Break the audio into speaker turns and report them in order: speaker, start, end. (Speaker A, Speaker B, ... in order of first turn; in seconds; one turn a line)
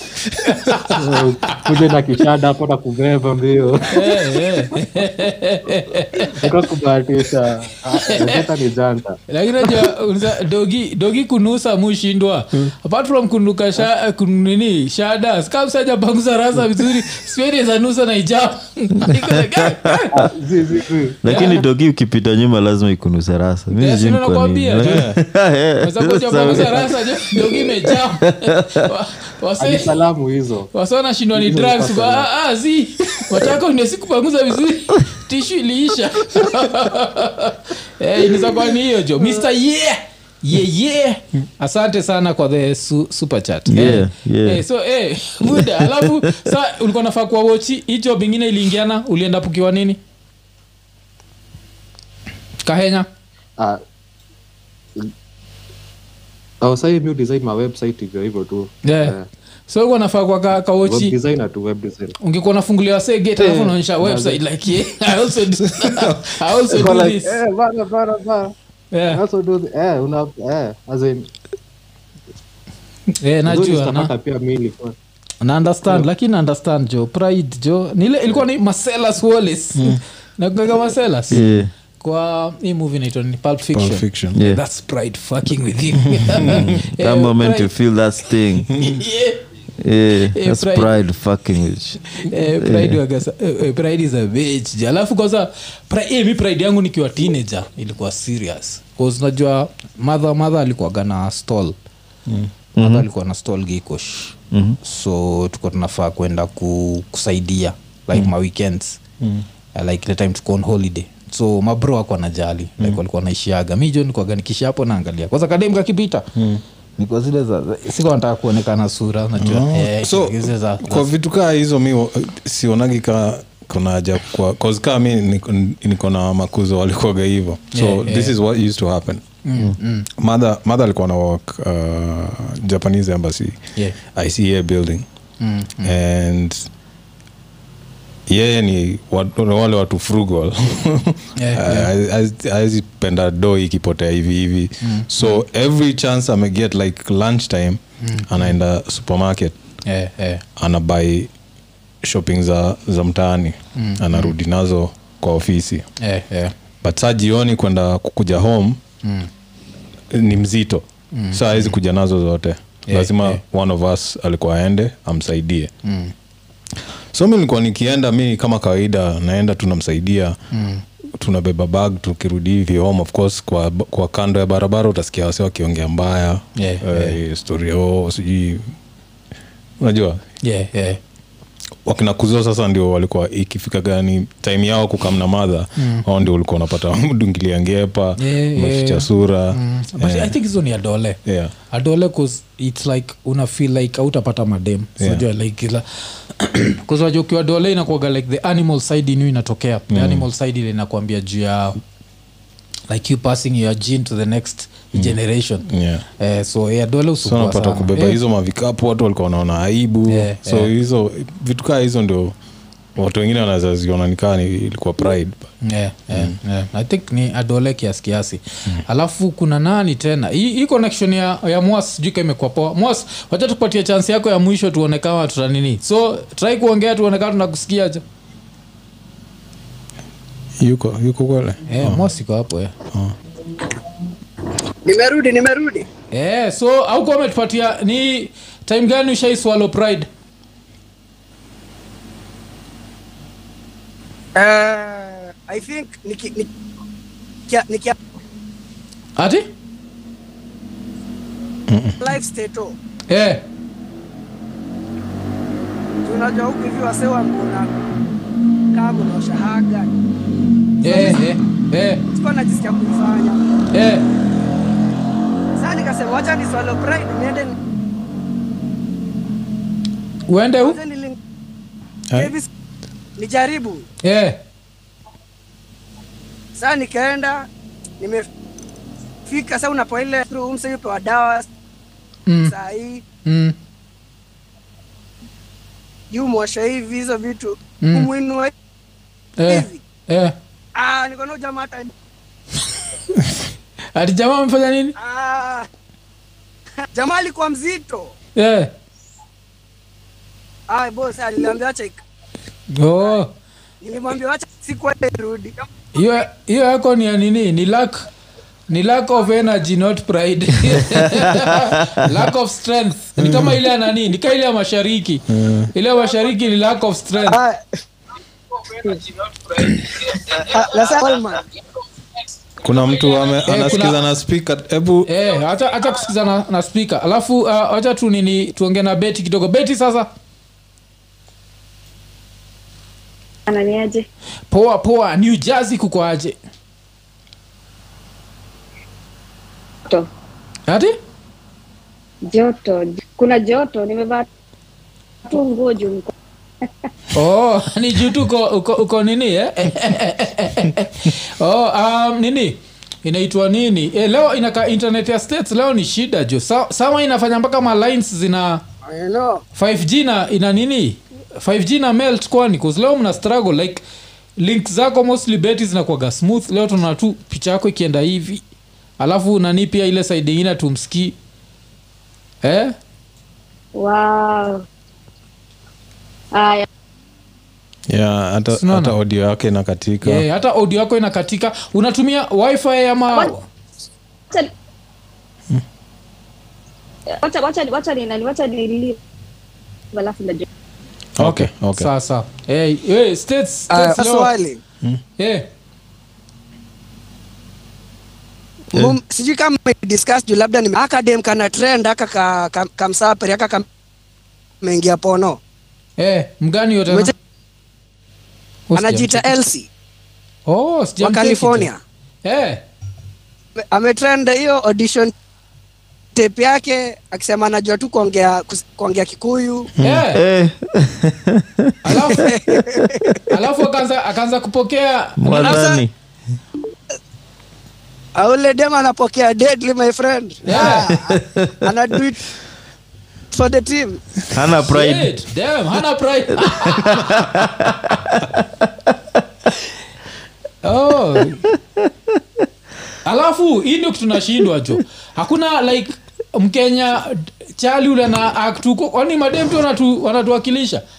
Speaker A: 0.4-1.7
Speaker B: 0.8-4.2
Speaker A: 3.9-6.5
Speaker B: 6.3-9.9
Speaker A: 8.1-8.4
Speaker A: 9.3-20.1
Speaker C: 19.0-20.2
Speaker B: 20.1-21.2
Speaker C: 21.2-28.9
Speaker A: 21.2-21.6
Speaker A: 23.7-25.1
Speaker D: 24.8-25.2
Speaker A: 25.8-29.9
Speaker B: 29.6-30.7
Speaker A: 30.7-50.0
Speaker B: 31.3-32.3
Speaker C: 43.7-44.6
Speaker C: 45.6-46.1
Speaker A: 52.6-53.1
Speaker B: 56.6-59.2
Speaker A: 58.8-59.1
Speaker A: 59.7-61.1
Speaker B: 60.8-62.1
Speaker A: 62.2-67.4
Speaker B: 63.4-64.4
Speaker D: 65.8-66.1
Speaker B: 66.7-68.5
Speaker A: 68.9-69.2
Speaker B: 69.1-71.3
Speaker A: 73.2-74.1
Speaker B: 73.5-75.0
Speaker A: 75.4-87.7
Speaker D: 79.8-80.0
Speaker C: 81.3-81.7
Speaker D: 83.7-84.4
Speaker C: 84.3-84.6
Speaker D: 86.1-86.6
Speaker C: 86.4-88.7
Speaker A: 88.8-89.4
Speaker C: 89.8-93.0
Speaker A: 90.3-90.9
Speaker A: 92.2-101.8
Speaker C: 102.8-103.0
Speaker A: 102.8-109.0
Speaker C: 104.5-104.8
Speaker A: 109.7-116.3
Speaker D: 116.3-116.6
Speaker A: 117.0-121.1
Speaker D: 119.4-129.2
Speaker A: 127.7-128.3
Speaker A: 129.4-130.1
Speaker D: 130.2-133.6
Speaker D: 134.1-135.1
Speaker A: 135.4-135.9
Speaker D: 135.8-136.7
Speaker D: 138.3-149.5
Speaker A: 141.4-141.9
Speaker A: 144.8-145.4
Speaker A: 148.0-148.5
Speaker A: 149.8-150.4
Speaker D: 150.6-151.3
Speaker D: 152.0-155.9
Speaker A: 153.8-154.3
Speaker A: 156.0-156.5
Speaker D: 156.8-158.8
Speaker A: 159.0-159.3
Speaker D: 160.1-165.7
Speaker A: 161.1-161.8
Speaker A: 162.9-163.4
Speaker A: 165.8-166.1
Speaker D: 167.1-170.4
Speaker A: 170.5-170.8
Speaker D: 171.2-178.7
Speaker A: 176.6-177.2
Speaker D: 179.8-180.2
Speaker A: 180.4-181.0
Speaker D: 181.8-190.4
Speaker A: 185.8-186.0
Speaker A: 188.2-191.2
Speaker D: 191.2-191.5
Speaker A: 191.7-201.8
Speaker D: 195.0-195.2
Speaker D: 199.9-200.3
Speaker A: 202.9-205.7
Speaker D: 204.9-206.0
Speaker A: 206.2-208.2
Speaker D: 207.2-212.3
Speaker A: 210.1-210.7
Speaker D: 212.9-215.5
Speaker A: 215.6-228.0
Speaker D: 216.1-216.4
Speaker D: 230.6-232.1
Speaker A: 231.7-232.7
Speaker E: 234.8-235.8
Speaker A: 236.1-240.1
Speaker E: 244.3-246.5
Speaker E: 247.5-248.0
Speaker A: 249.2-249.4
Speaker D: 251.7-252.0
Speaker E: 252.0-252.8
Speaker A: 253.1-253.4
Speaker E: 256.0-257.7
Speaker E: 258.7-259.9
Speaker A: 260.8-262.0
Speaker E: 260.8-261.2
Speaker E: 262.1-263.5
Speaker A: 263.7-264.1
Speaker E: 265.6-267.5
Speaker A: 270.3-270.8
Speaker E: 270.6-271.2
Speaker E: 272.1-272.5
Speaker E: 273.2-273.9
Speaker A: 274.0-274.4
Speaker E: 276.5-277.5
Speaker E: 278.0-278.3
Speaker E: 279.2-281.5
Speaker A: 282.3-282.5
Speaker E: 282.4-283.0
Speaker A: 283.2-283.6
Speaker E: 286.1-288.5
Speaker A: 287.8-288.1
Speaker A: 289.4-290.3
Speaker E: 289.5-289.8
Speaker E: 290.8-291.9
Speaker A: 293.9-294.9
Speaker E: 295.0-295.7
Speaker E: 296.9-298.1
Speaker A: 298.4-298.7
Speaker E: 300.7-302.0
Speaker A: 302.7-303.3
Speaker E: 303.8-305.5
Speaker A: 305.9-308.1
Speaker A: 308.7-317.4
Speaker D: 313.2-313.6
Speaker D: 315.3-315.7
Speaker E: 317.3-317.8
Speaker E: 320.3-321.4
Speaker D: 322.6-325.1
Speaker A: 323.4-324.0
Speaker A: 325.1-330.1
Speaker F: 333.5-334.0
Speaker A: 334.5-336.4
Speaker A: 340.7-340.9
Speaker F: 342.3-344.2
Speaker F: 345.2-346.1
Speaker A: 347.1-358.6
Speaker E: 358.8-359.4
Speaker A: 359.5-363.8
Speaker A: 364.4-368.4
Speaker A: 369.0-371.1
Speaker A: 372.4-372.7
Speaker F: 373.8-374.6
Speaker F: 376.3-376.6
Speaker D: 377.9-380.2
Speaker A: 378.5-378.9
Speaker A: 380.0-383.4
Speaker F: 387.2-389.0
Speaker F: 389.9-390.4
Speaker D: 391.2-391.9
Speaker A: 391.2-394.3
Speaker E: 393.7-394.6
Speaker A: 395.2-395.5
Speaker E: 398.7-403.6
Speaker E: 404.6-405.4
Speaker A: 406.0-407.1
Speaker A: 408.7-409.3
Speaker E: 408.7-409.7
Speaker A: 410.5-411.7
Speaker E: 411.0-411.8
Speaker A: 412.2-412.6
Speaker E: 413.7-415.1
Speaker E: 416.1-419.7
Speaker A: 419.8-420.2
Speaker C: 420.1-422.1
Speaker A: 421.8-422.3
Speaker E: 422.1-423.1
Speaker A: 423.3-425.6
Speaker C: 425.2-425.9
Speaker E: 425.3-425.8
Speaker E: 428.2-432.2
Speaker A: 430.4-430.9
Speaker C: 430.5-432.0
Speaker E: 433.3-434.0
Speaker C: 434.3-435.1
Speaker A: 434.7-437.5
Speaker C: 436.4-438.4
Speaker A: 440.6-441.4
Speaker A: 443.0-450.8